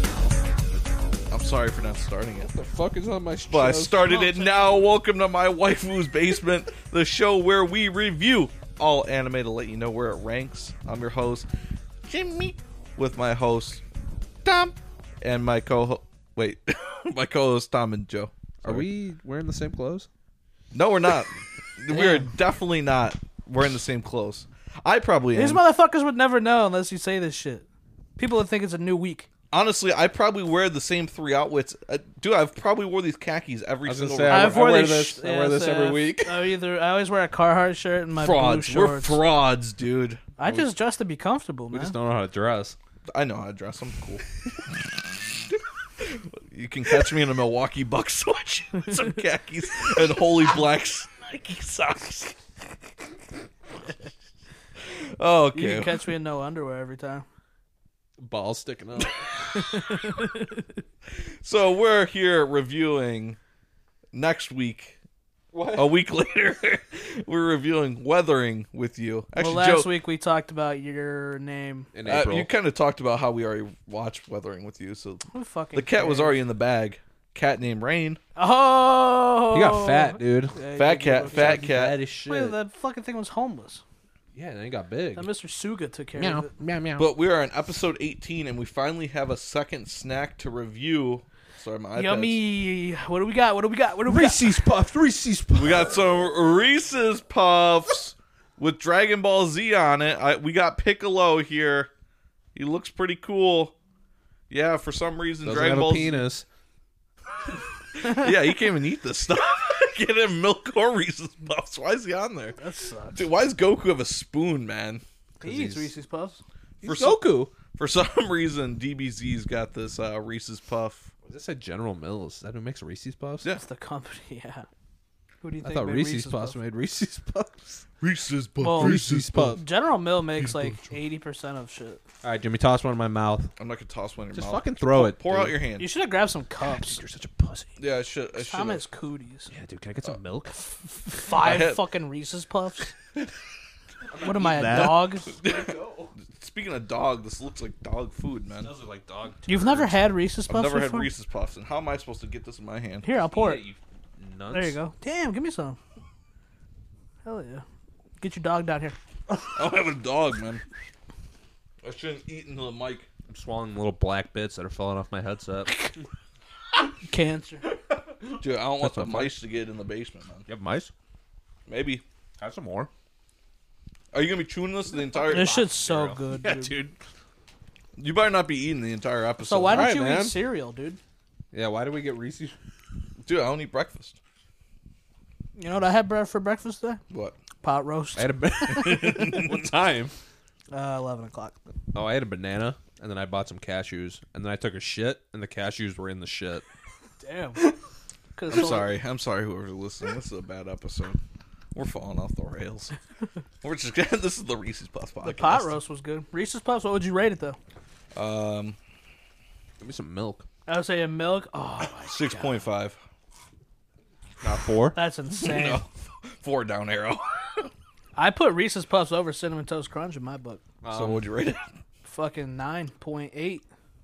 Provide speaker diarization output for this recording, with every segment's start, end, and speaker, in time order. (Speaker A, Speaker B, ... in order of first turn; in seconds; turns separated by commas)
Speaker A: 1.3-2.5, Speaker B: 2.4-4.4, Speaker A: 3.5-11.5, Speaker A: 12.1-13.8, Speaker A: 14.4-18.9, Speaker B: 18.6-20.1, Speaker A: 20.7-25.6, Speaker C: 21.9-22.3, Speaker C: 25.3-27.7, Speaker C: 28.2-29.3, Speaker A: 29.5-34.7, Speaker B: 33.8-36.4, Speaker C: 34.3-39.2, Speaker A: 38.2-40.2, Speaker C: 40.4-42.0, Speaker B: 41.7-42.8, Speaker A: 43.1-44.7, Speaker A: 45.5-52.4, Speaker A: 54.9-56.1, Speaker C: 55.5-57.2, Speaker B: 58.2-59.3, Speaker C: 59.5-60.7, Speaker A: 61.1-63.4, Speaker A: 64.1-65.0, Speaker B: 65.5-65.9, Speaker A: 65.7-69.9, Speaker C: 69.3-71.9, Speaker B: 71.9-72.5, Speaker A: 72.0-78.2, Speaker C: 75.3-76.4, Speaker C: 78.3-81.7, Speaker B: 79.5-80.6, Speaker A: 80.7-82.0, Speaker B: 81.3-82.5, Speaker C: 82.2-83.8, Speaker B: 84.3-85.3, Speaker C: 85.2-86.5, Speaker B: 86.2-87.1, Speaker A: 87.0-92.4, Speaker C: 92.0-94.5, Speaker B: 94.1-96.0, Speaker A: 95.5-101.9, Speaker A: 102.5-103.7, Speaker A: 104.5-106.2, Speaker B: 105.4-106.4, Speaker A: 107.9-112.6, Speaker C: 112.6-113.3, Speaker A: 113.1-115.0, Speaker B: 115.4-115.9, Speaker C: 115.4-116.4, Speaker B: 116.8-117.5, Speaker A: 116.8-121.1, Speaker B: 121.2-123.5, Speaker C: 123.6-124.7, Speaker C: 125.4-126.6, Speaker B: 125.6-127.8, Speaker A: 128.0-129.6, Speaker C: 128.6-132.0, Speaker B: 128.7-129.6, Speaker A: 130.4-130.8, Speaker B: 132.2-133.5, Speaker A: 133.6-135.9, Speaker B: 134.3-135.6, Speaker C: 135.8-137.0, Speaker B: 136.8-137.7, Speaker A: 137.8-138.8, Speaker C: 138.4-139.5, Speaker B: 139.5-141.2, Speaker C: 141.0-142.9, Speaker A: 141.3-141.8, Speaker B: 144.1-146.1, Speaker C: 144.2-145.3, Speaker A: 144.7-148.7, Speaker B: 148.6-150.0, Speaker C: 149.4-151.1, Speaker A: 150.5-153.1, Speaker C: 153.0-153.6, Speaker B: 153.3-154.8, Speaker C: 154.5-155.8, Speaker C: 157.2-157.6, Speaker C: 158.2-158.9, Speaker A: 159.5-160.6, Speaker A: 161.8-163.1, Speaker B: 163.3-165.8, Speaker C: 167.1-167.6, Speaker B: 168.1-169.3, Speaker A: 168.3-170.5, Speaker B: 170.5-170.9, Speaker A: 171.7-172.0, Speaker B: 172.4-172.9, Speaker A: 174.1-175.6, Speaker B: 175.0-176.9, Speaker C: 175.2-176.8, Speaker A: 178.0-179.9, Speaker C: 179.4-181.0, Speaker B: 179.7-180.4, Speaker B: 181.5-182.5, Speaker A: 183.2-184.2, Speaker C: 185.6-187.0, Speaker A: 187.1-187.4, Speaker C: 187.6-189.2, Speaker B: 188.2-190.1, Speaker A: 188.8-189.6, Speaker C: 190.7-191.6, Speaker B: 191.9-196.6, Speaker C: 197.2-197.7, Speaker C: 198.3-198.9, Speaker A: 198.5-201.2, Speaker A: 201.7-203.0, Speaker A: 203.6-205.8, Speaker C: 205.2-207.6, Speaker A: 208.1-208.8, Speaker B: 209.8-210.4, Speaker C: 210.7-212.6, Speaker A: 212.0-213.0, Speaker B: 214.4-215.0, Speaker C: 214.9-215.8, Speaker A: 215.4-217.7, Speaker C: 218.2-220.6, Speaker B: 220.8-221.2, Speaker A: 220.9-221.7, Speaker C: 222.0-223.6